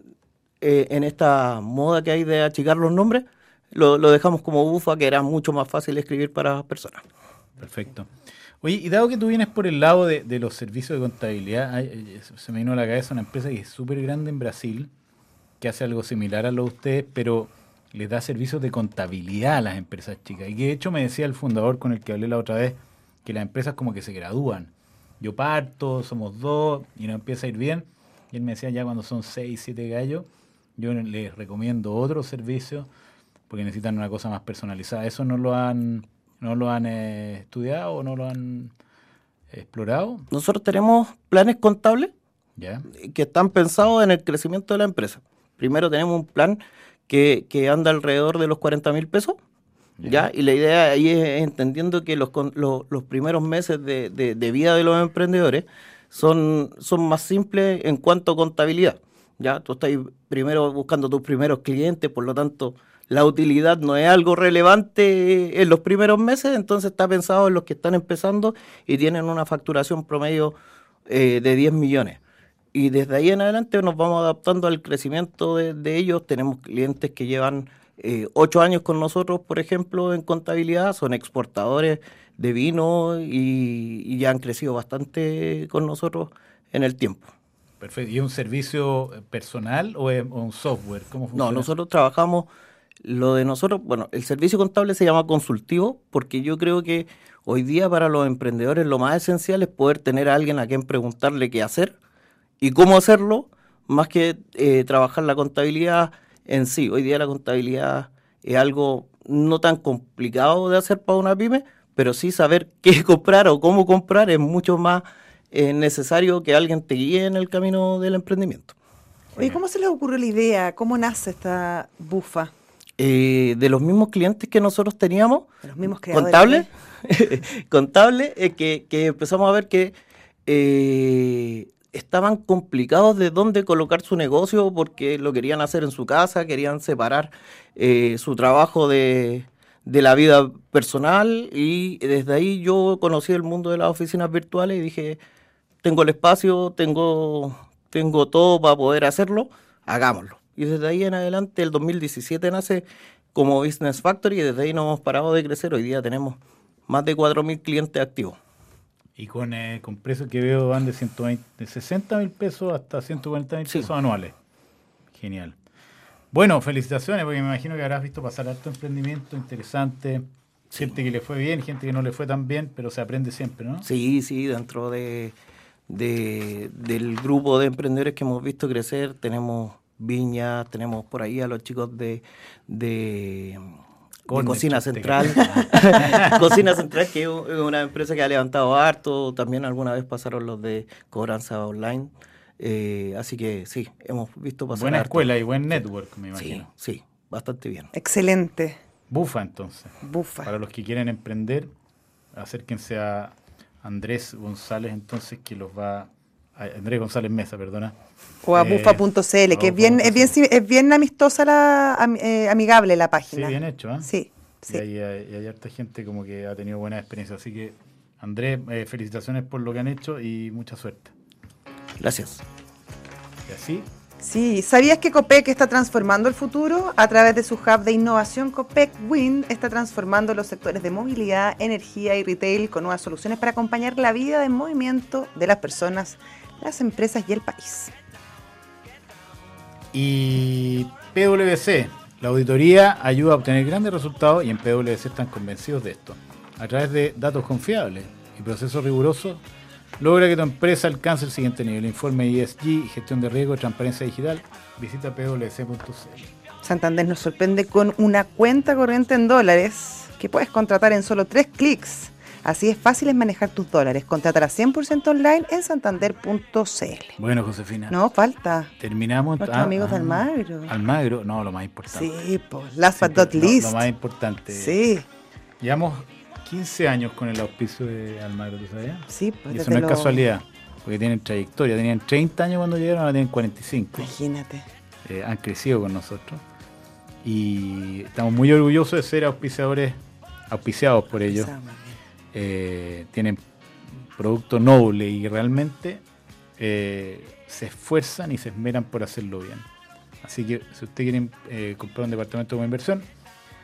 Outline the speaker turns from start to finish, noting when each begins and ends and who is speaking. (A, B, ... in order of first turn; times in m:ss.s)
0:00.6-0:07.0 A
0:07.6-0:08.1 B
0:08.6-0:14.9 B
0:15.6-0:32.9 B
0:33.5-0:38.7 B
0:39.5-0:40.3 B
0:40.3-0:42.1 A
0:42.6-0:42.8 B
0:42.9-0:49.4 A
0:50.0-0:50.3 B
0:50.0-1:10.6 A
1:11.1-1:12.2 A
1:12.7-1:27.3 A
1:27.8-1:31.7 B
1:31.3-1:32.5 A
1:33.0-1:41.9 A
1:42.6-1:58.8 A
1:59.4-2:02.5 C
2:03.0-2:09.9 A
2:05.6-2:06.7 C
2:10.4-2:25.2 A
2:25.8-2:38.4 A
2:39.2-2:44.3 B
2:45.1-2:45.5 B
2:46.3-2:53.9 B
2:53.8-2:55.4 A
2:55.9-3:03.7 A
3:04.3-3:15.3 A
3:04.3-3:06.5 B
3:05.9-3:06.4 C
3:14.7-3:16.7 B
3:16.3-3:17.9 A
3:17.9-3:18.8 C
3:19.1-3:21.7 B
3:20.0-3:20.5 C
3:22.3-3:27.9 B
3:28.4-3:34.8 C
3:28.5-3:30.4 B
3:33.3-3:34.1 B
3:34.7-3:41.1 B
3:42.0-3:42.4 A
3:43.5-3:43.9 B
3:44.2-3:57.9 C
3:59.9-4:09.4 B
4:10.0-4:16.3 B
4:16.6-4:27.2 C
4:27.2-4:28.0 B
4:27.9-4:28.7 C
4:28.8-4:32.1 B
4:29.4-4:30.7 C
4:31.9-4:33.8 C
4:32.9-4:34.8 B
4:34.5-4:35.0 C
4:35.6-4:44.1 B
4:39.1-4:40.2 C
4:44.0-4:44.6 C
4:45.0-4:46.4 B
4:47.2-4:50.0 B
4:50.5-4:51.5 B
4:51.3-4:52.0 C
4:52.3-4:53.4 B
4:53.9-4:56.0 B
4:56.6-4:59.6 B
5:00.2-5:03.1 B